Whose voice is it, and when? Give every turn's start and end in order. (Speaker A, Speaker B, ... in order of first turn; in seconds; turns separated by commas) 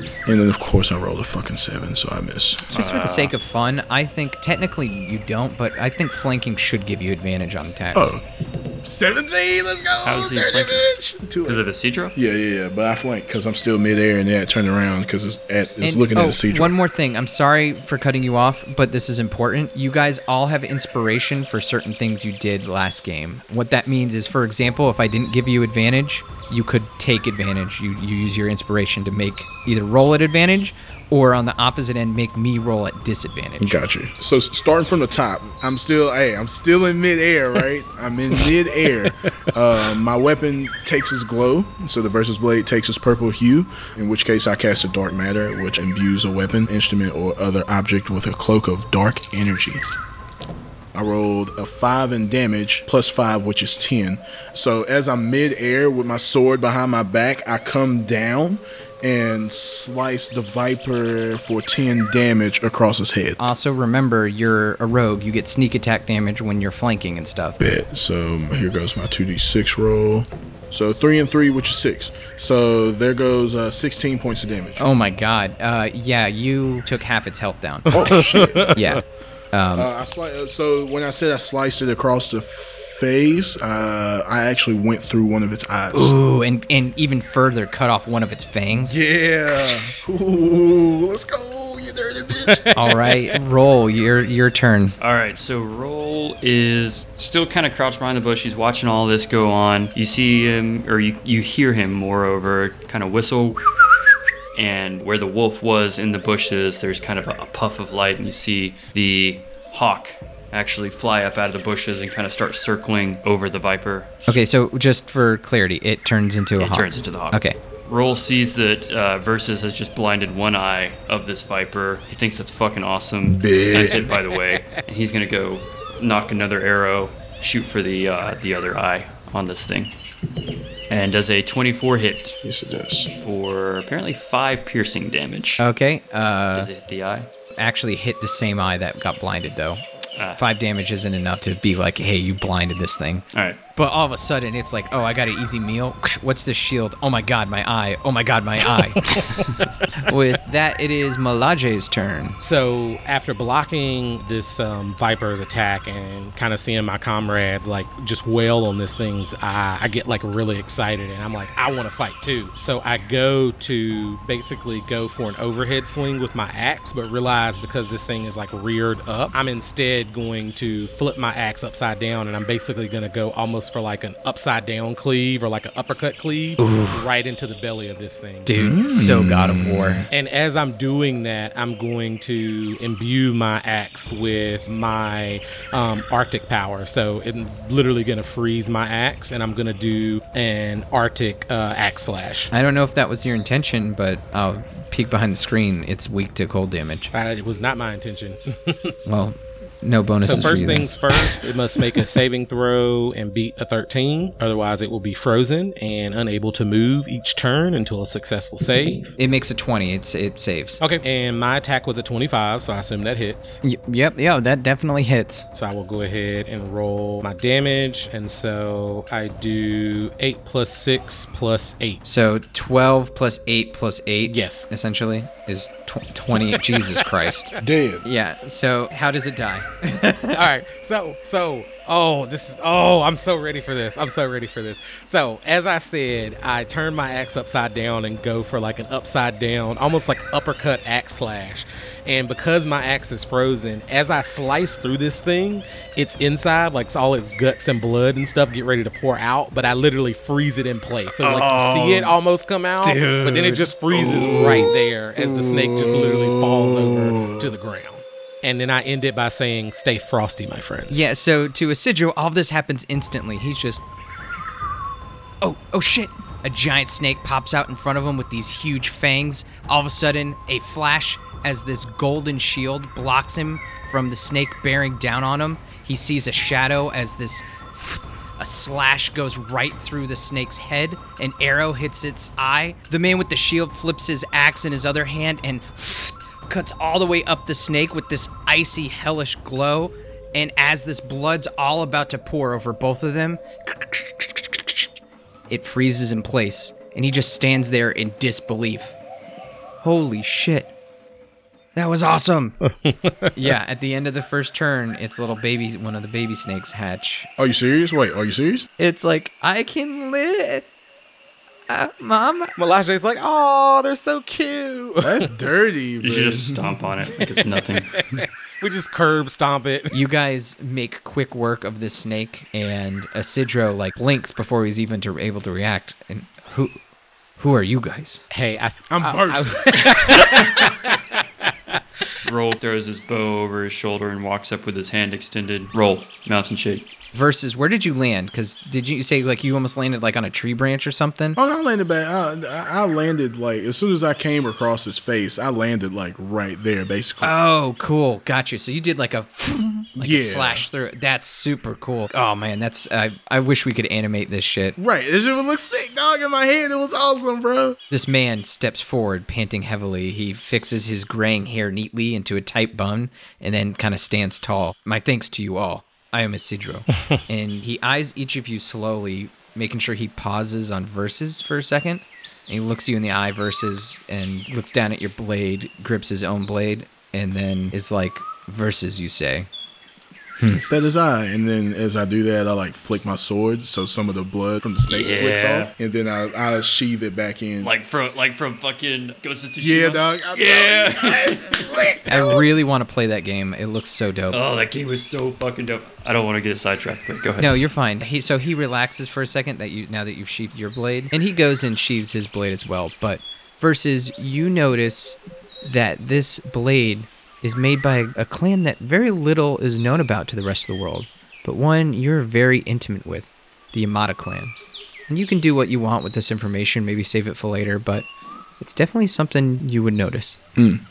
Speaker A: 0.3-2.8, Speaker B: 2.7-8.2, Speaker C: 2.7-3.3, Speaker A: 7.9-8.2, Speaker A: 8.8-16.7, Speaker C: 10.0-12.2, Speaker B: 15.8-33.8, Speaker A: 33.6-49.8, Speaker A: 50.9-63.4, Speaker B: 63.4-67.6, Speaker A: 67.6-74.8, Speaker B: 74.8-79.9, Speaker A: 77.9-78.8, Speaker D: 77.9-79.0, Speaker A: 79.8-86.2, Speaker B: 85.9-89.0, Speaker A: 88.8-92.7, Speaker D: 92.4-93.3, Speaker B: 92.7-95.0, Speaker C: 95.0-103.6, Speaker C: 104.5-114.4, Speaker B: 114.3-117.6, Speaker C: 116.6-129.9, Speaker A: 123.3-124.1, Speaker C: 130.9-132.4, Speaker A: 132.4-133.1, Speaker C: 133.2-135.6, Speaker B: 135.6-136.7, Speaker C: 136.6-137.3, Speaker B: 137.6-139.8, Speaker C: 140.2-140.4, Speaker B: 140.4-143.2, Speaker C: 143.3-143.6, Speaker B: 143.8-149.4, Speaker D: 148.8-149.4, Speaker B: 149.9-152.4, Speaker D: 152.4-178.5, Speaker B: 176.6-177.1, Speaker B: 178.4-180.1, Speaker A: 178.6-180.1, Speaker D: 180.1-192.5, Speaker B: 192.5-197.1, Speaker D: 197.1-198.9, Speaker B: 199.1-200.9, Speaker D: 200.2-209.1, Speaker B: 209.2-210.8, Speaker D: 210.8-213.6, Speaker B: 213.6-215.5, Speaker D: 215.5-222.0, Speaker B: 222.0-230.5, Speaker D: 224.3-224.7, Speaker A: 227.6-228.1, Speaker D: 230.3-261.1, Speaker B: 251.2-252.1, Speaker B: 252.8-253.7, Speaker A: 253.9-257.5, Speaker B: 260.9-263.8, Speaker B: 265.4-294.8, Speaker B: 295.5-299.0, Speaker B: 299.8-300.7, Speaker B: 301.8-302.6, Speaker D: 302.7-303.3, Speaker B: 303.4-307.3, Speaker A: 307.4-308.7, Speaker B: 308.8-310.7, Speaker B: 311.7-312.5, Speaker D: 312.6-315.3, Speaker A: 315.0-316.8, Speaker C: 316.0-317.9, Speaker D: 317.6-320.0, Speaker B: 319.9-326.8, Speaker B: 327.4-328.2, Speaker D: 328.3-331.8, Speaker A: 328.9-329.9, Speaker C: 332.2-336.9, Speaker B: 337.1-341.4, Speaker A: 341.4-347.3, Speaker B: 347.2-354.8, Speaker A: 350.0-350.7, Speaker A: 354.8-357.8, Speaker B: 357.9-379.5, Speaker B: 380.4-380.6, Speaker A: 380.7-387.7, Speaker C: 384.9-385.7, Speaker C: 387.6-392.0, Speaker A: 389.6-392.4, Speaker B: 392.1-394.4, Speaker C: 394.3-397.6, Speaker B: 397.4-414.5, Speaker B: 415.1-418.1, Speaker B: 418.6-420.8